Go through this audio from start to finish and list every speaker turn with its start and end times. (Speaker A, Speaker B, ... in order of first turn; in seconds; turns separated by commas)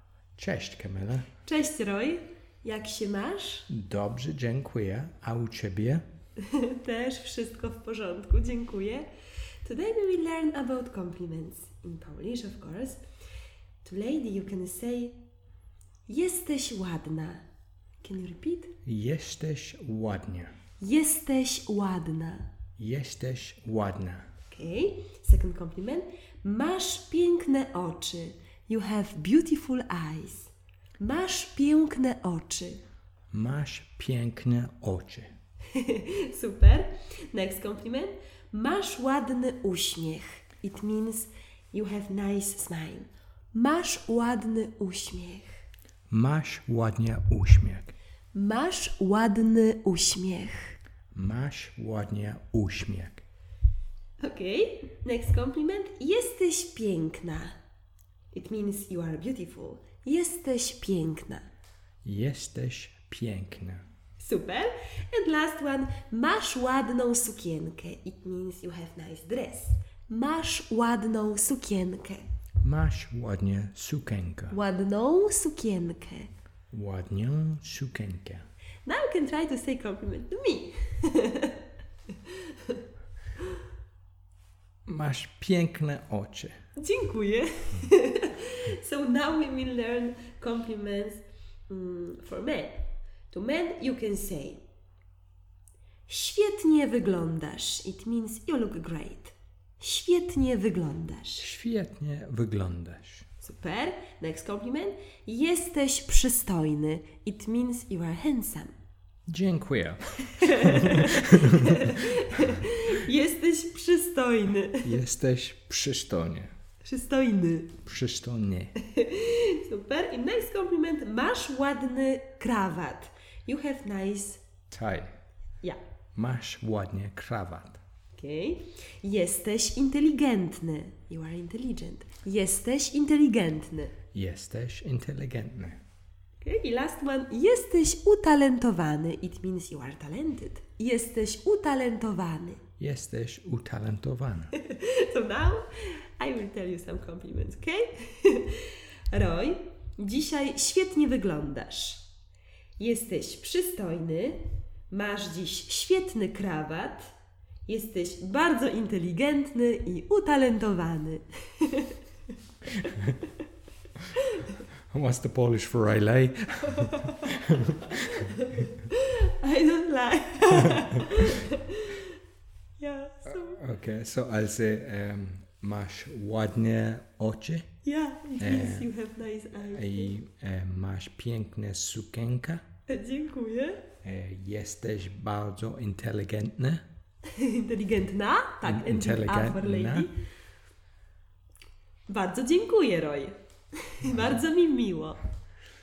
Speaker A: 0.4-1.3, Speaker B: 1.4-3.7, Speaker A: 3.7-6.0, Speaker B: 6.4-9.1, Speaker B: 9.6-13.0, Speaker B: 13.8-15.2, Speaker B: 16.1-17.4, Speaker B: 18.0-18.7, Speaker A: 18.8-20.5, Speaker B: 20.8-22.5, Speaker A: 22.8-24.2, Speaker B: 24.5-32.8, Speaker A: 33.3-35.3, Speaker B: 35.7-45.6, Speaker A: 46.1-47.9, Speaker B: 48.3-50.8, Speaker A: 51.1-53.2, Speaker B: 54.2-57.6, Speaker B: 58.3-61.5, Speaker A: 62.0-63.8, Speaker B: 64.2-72.2, Speaker A: 72.6-74.6, Speaker B: 74.5-76.3, Speaker A: 76.7-78.4, Speaker B: 78.8-81.6, Speaker B: 82.2-82.8, Speaker A: 84.8-86.5, Speaker B: 86.8-94.6, Speaker B: 96.1-101.5, Speaker A: 101.4-103.2, Speaker B: 103.4-108.7, Speaker A: 109.3-112.0, Speaker B: 110.4-114.9, Speaker A: 114.8-116.5, Speaker B: 116.8-117.8, Speaker A: 117.8-118.7, Speaker B: 118.8-124.4, Speaker A: 124.7-125.1, Speaker A: 126.2-127.8, Speaker B: 128.2-134.0, Speaker A: 134.1-135.8, Speaker B: 136.4-142.6, Speaker A: 142.8-144.5, Speaker B: 144.6-152.1, Speaker B: 152.8-157.1, Speaker B: 157.7-162.0, Speaker B: 164.2-164.5, Speaker A: 164.9-168.3, Speaker B: 168.1-172.1, Speaker B: 172.8-173.6, Speaker A: 173.3-177.7, Speaker B: 177.8-180.1, Speaker A: 178.4-178.9, Speaker A: 179.7-182.6, Speaker B: 182.9-183.9, Speaker A: 184.0-186.8, Speaker B: 187.3-190.1, Speaker A: 188.6-190.1, Speaker B: 192.1-193.3, Speaker B: 193.8-195.2